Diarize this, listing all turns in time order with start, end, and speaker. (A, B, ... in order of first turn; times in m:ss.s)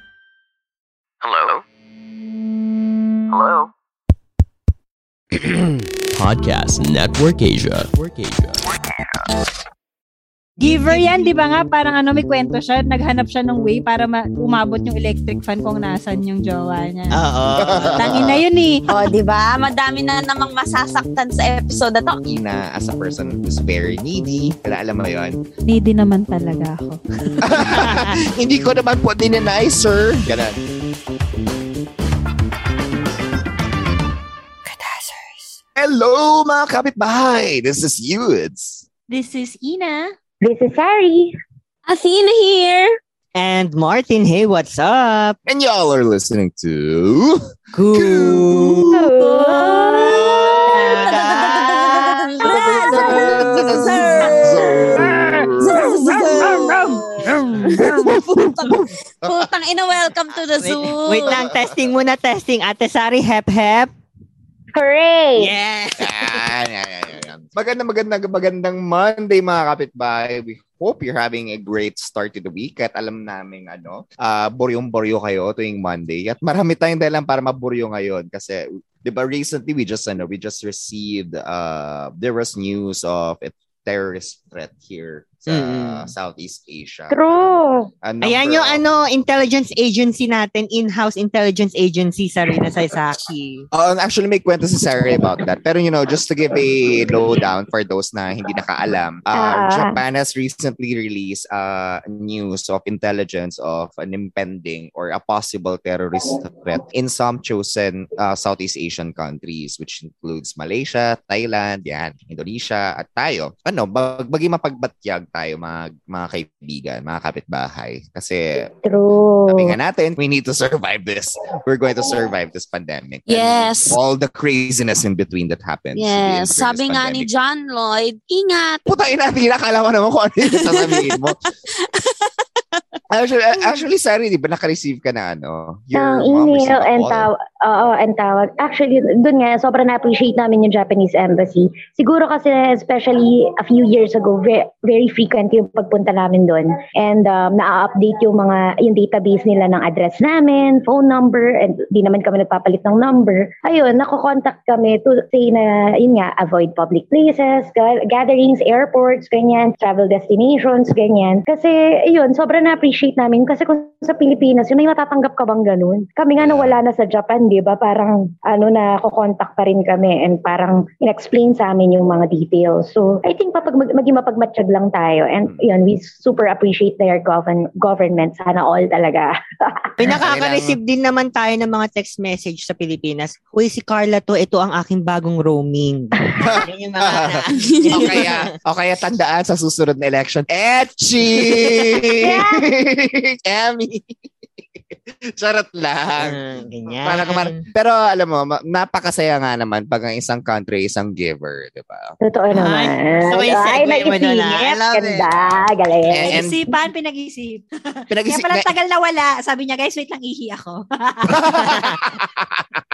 0:06.1-0:08.6 A
0:10.6-0:11.3 B
0:10.6-0:17.2 C
0:17.1-0:18.2 B
0:17.6-0:18.4 D
0:18.0-0:18.8 C
0:18.9-0:22.2 E
0:22.2-0:25.4 D
0:25.7-0:27.3 C
0:27.4-0:30.6 D
0:27.7-0:28.1 B
0:34.7-0:35.6 B
0:35.8-0:38.8 D
0:39.1-0:40.1 C
0:40.4-0:41.3 F
0:41.9-0:42.9 E
0:43.4-0:45.4 B
0:45.5-0:49.1 D
0:47.7-0:48.8 B
0:49.1-0:50.2 C
0:49.2-0:50.7 F
0:50.0-0:50.6 D
0:50.6-0:52.2 B
0:51.1-0:55.0 E
0:52.4-0:55.8 D
0:55.6-1:01.4 E
0:55.7-0:56.8 F
0:57.6-0:58.2 B
1:00.6-1:03.9 B
1:01.2-1:01.7 D
1:04.7-1:05.5 F
1:05.4-1:06.3 B
1:06.0-1:28.8 D
1:25.5-1:26.1 B
1:27.1-1:27.9 F
1:28.2-1:33.6 B
1:33.7-1:58.7 D
1:39.4-1:40.0 F
1:58.8-1:59.7 F
1:59.5-2:07.3 D
2:03.3-2:04.0 E
2:06.0-2:08.8 E
2:08.8-2:11.4 D
2:10.5-2:11.3 E
2:11.9-2:12.3 E
2:13.1-2:17.3 D
2:16.0-2:59.9 F
2:46.4-2:46.8 D
3:00.0-3:08.5 B
3:00.1-3:00.8 D
3:06.4-3:14.1 D
3:07.7-3:08.2 E
3:15.4-3:16.4 D
3:16.2-3:17.6 B
3:17.0-3:22.1 D
3:22.2-3:26.4 F
3:22.5-3:25.4 B
3:26.1-3:26.6 D
3:26.2-3:31.9 C
3:28.1-3:28.7 D
3:31.3-3:32.6 D